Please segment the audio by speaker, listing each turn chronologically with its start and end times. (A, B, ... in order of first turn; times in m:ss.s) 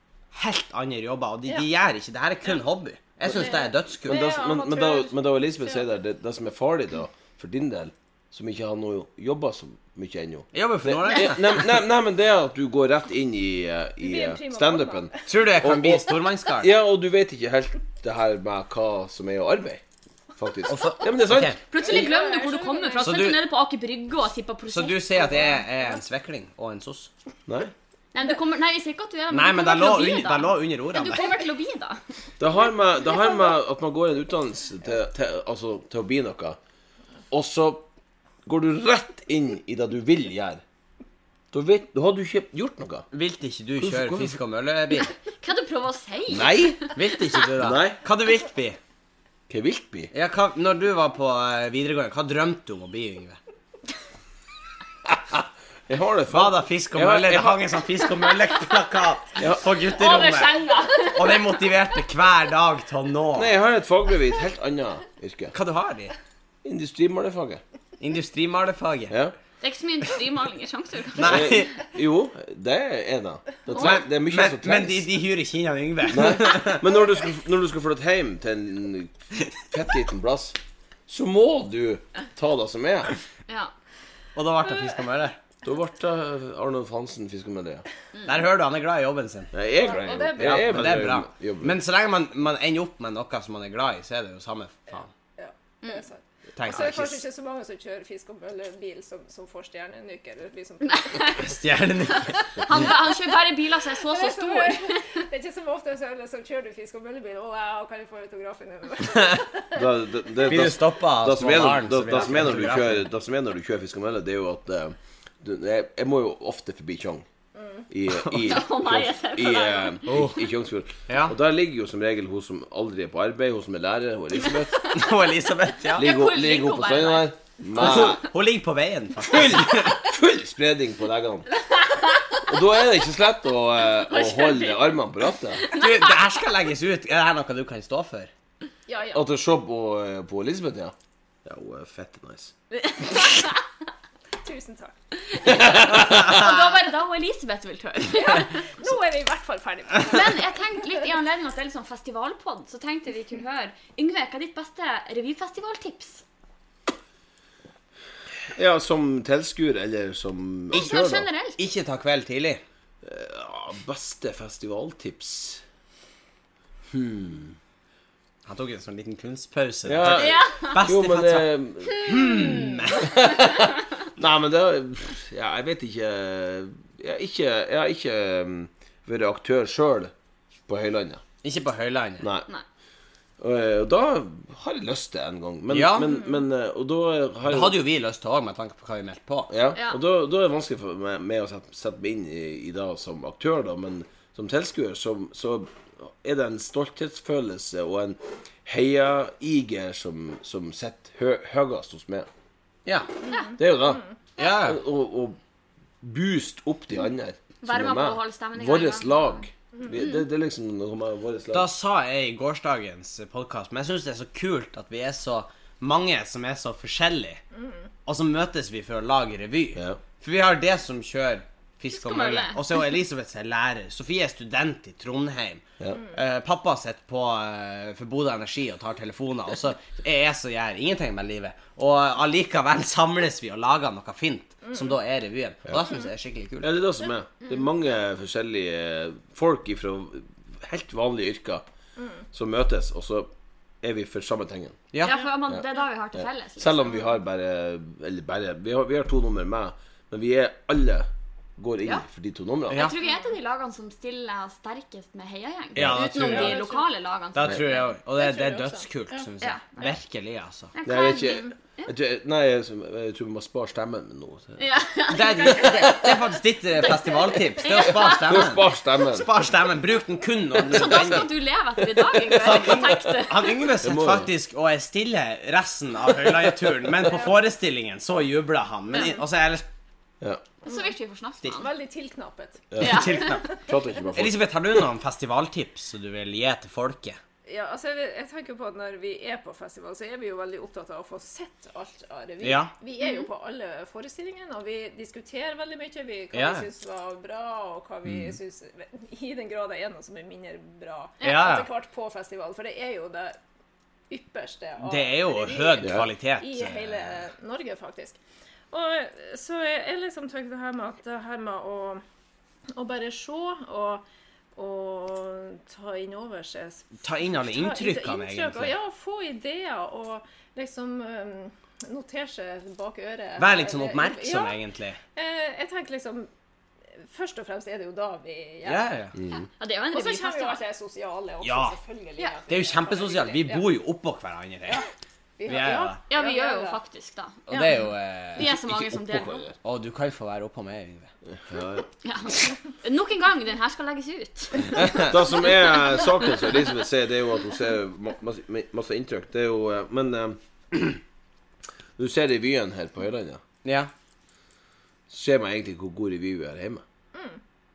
0:00.3-0:04.2 A
0:03.2-0:05.8 B
0:04.0-0:19.8 C
0:10.5-0:11.7 A
0:14.0-0:15.3 B
0:15.2-0:16.7 A
0:20.4-0:21.6 C
0:20.7-0:21.6 A
0:21.7-0:25.5 D
0:21.7-0:23.2 B
0:23.0-0:23.4 A
0:24.7-0:27.1 A
0:27.5-0:27.7 C
0:28.1-0:32.0 D
0:29.3-0:31.3 A
0:32.4-0:36.6 C
0:37.3-0:37.8 C
0:38.5-0:40.6 C
0:41.5-0:43.0 C
0:43.1-0:45.1 A
0:43.8-0:44.4 C
0:45.4-0:47.0 D
0:46.3-0:46.8 C
0:47.0-0:48.8 A
0:47.6-0:48.0 C
0:49.5-0:50.1 C
0:50.1-0:53.4 A
0:55.0-0:57.6 C
0:56.3-1:03.5 A
0:59.4-0:59.6 C
0:59.8-1:01.6 D
1:03.4-1:05.5 C
1:05.5-1:06.1 A
1:06.6-1:07.6 C
1:08.0-1:09.1 A
1:09.6-1:11.6 D
1:11.2-1:11.7 A
1:11.2-1:15.1 C
1:13.8-1:16.8 A
1:16.1-1:20.6 C
1:21.1-1:23.1 C
1:24.4-1:25.4 A
1:25.6-1:27.8 C
1:28.2-1:29.5 A
1:29.5-1:31.8 C
1:29.8-1:30.7 B
1:30.3-1:35.1 A
1:35.4-1:41.6 B
1:36.6-1:37.2 A
1:40.9-1:41.4 D
1:41.4-1:42.9 A
1:42.6-1:43.3 B
1:42.6-1:45.1 D
1:44.0-1:49.9 B
1:49.8-1:57.2 C
1:50.4-1:53.1 A
1:57.5-1:57.9 B
1:57.9-2:04.9 C
1:58.1-1:58.5 A
1:58.4-2:00.1 D
2:00.0-2:00.4 A
2:01.1-2:01.3 A
2:04.9-2:06.1 A
2:05.9-2:07.3 D
2:06.0-2:08.2 C
2:07.8-2:10.0 A
2:09.2-2:11.5 C
2:11.8-2:12.4 D
2:12.5-2:15.6 C
2:13.9-2:15.0 D
2:15.5-2:16.3 D
2:15.7-2:18.3 A
2:18.9-2:19.2 B
2:19.1-2:20.9 C
2:21.4-2:22.5 C
2:22.8-2:23.6 D
2:24.4-2:25.0 B
2:25.3-2:28.6 D
2:25.4-2:26.3 C
2:26.0-2:26.6 A
2:28.1-2:30.6 B
2:30.0-2:36.2 D
2:38.5-2:41.3 C
2:40.7-2:41.6 D
2:41.6-2:42.6 A
2:43.0-2:45.6 C
2:46.9-2:47.6 C
2:48.5-2:53.2 A
2:49.8-3:00.1 C
2:50.1-2:50.8 D
3:00.7-3:01.2 C
3:01.4-3:02.2 A
3:02.2-3:02.5 C
3:03.4-3:07.8 C
3:05.7-3:06.2 A
3:07.5-3:09.5 A
3:09.5-3:22.3 C
3:22.8-3:23.1 A
3:23.2-3:24.1 B
3:23.6-3:24.0 C
3:24.4-3:24.8 A
3:24.6-3:25.4 C
3:26.0-3:31.7 C
3:27.6-3:30.2 D
3:31.5-3:37.4 A
3:37.5-3:37.9 B
3:38.0-3:56.7 A
3:39.8-3:40.0 C
3:41.9-3:42.9 D
3:56.6-4:01.6 C
4:02.0-4:02.2 B
4:02.3-4:03.3 C
4:03.8-4:04.8 C
4:04.9-4:05.2 A
4:05.0-4:07.1 D
4:06.2-4:12.8 C
4:12.7-4:13.0 A
4:12.7-4:17.9 D
4:13.0-4:13.3 B
4:15.8-4:16.4 C
4:15.8-4:16.7 A
4:16.0-4:16.9 B
4:17.3-4:20.7 A
4:18.2-4:19.3 B
4:19.4-4:20.0 D
4:20.8-4:21.9 D
4:20.8-4:24.6 C
4:24.6-4:26.1 D
4:25.1-4:31.3 A
4:25.5-4:25.9 C
4:27.0-4:28.5 D
4:28.0-4:29.3 C
4:30.6-4:33.6 D
4:32.3-4:39.7 A
4:33.8-4:34.3 C
4:38.9-4:39.2 D
4:40.6-4:41.7 D
4:41.4-4:43.7 B
4:42.7-4:44.5 C
4:42.8-4:43.4 D
4:42.8-4:43.5 A
4:44.1-4:47.2 A
4:47.5-5:03.4 B
4:52.4-4:52.7 A
4:53.0-4:53.3 D
4:56.3-4:56.7 A
4:58.0-4:58.4 C
5:01.2-5:01.4 D
5:01.2-5:01.7 A
5:04.1-5:08.2 B
5:04.8-5:07.2 A
5:05.8-5:06.1 C
5:08.7-5:12.0 B
5:12.7-5:14.0 B
5:14.6-5:24.6 B
5:17.0-5:18.8 A
5:23.4-5:25.0 A
5:25.1-5:26.3 B
5:27.0-5:29.0 B
5:28.6-5:29.1 A
5:29.2-5:29.4 C
5:29.6-5:30.6 D
5:29.9-5:33.7 B
5:31.4-5:31.8 A
5:32.5-5:34.8 A
5:34.7-5:36.8 B
5:35.5-5:36.0 A
5:36.1-5:39.5 D
5:37.5-5:38.5 A
5:38.4-5:39.5 C
5:39.6-5:41.1 A
5:41.3-5:41.8 C
5:42.0-5:45.0 D
5:45.0-5:51.0 C
5:52.0-5:53.4 C
5:53.6-5:53.9 A
5:55.1-5:56.8 C
5:57.1-5:57.4 B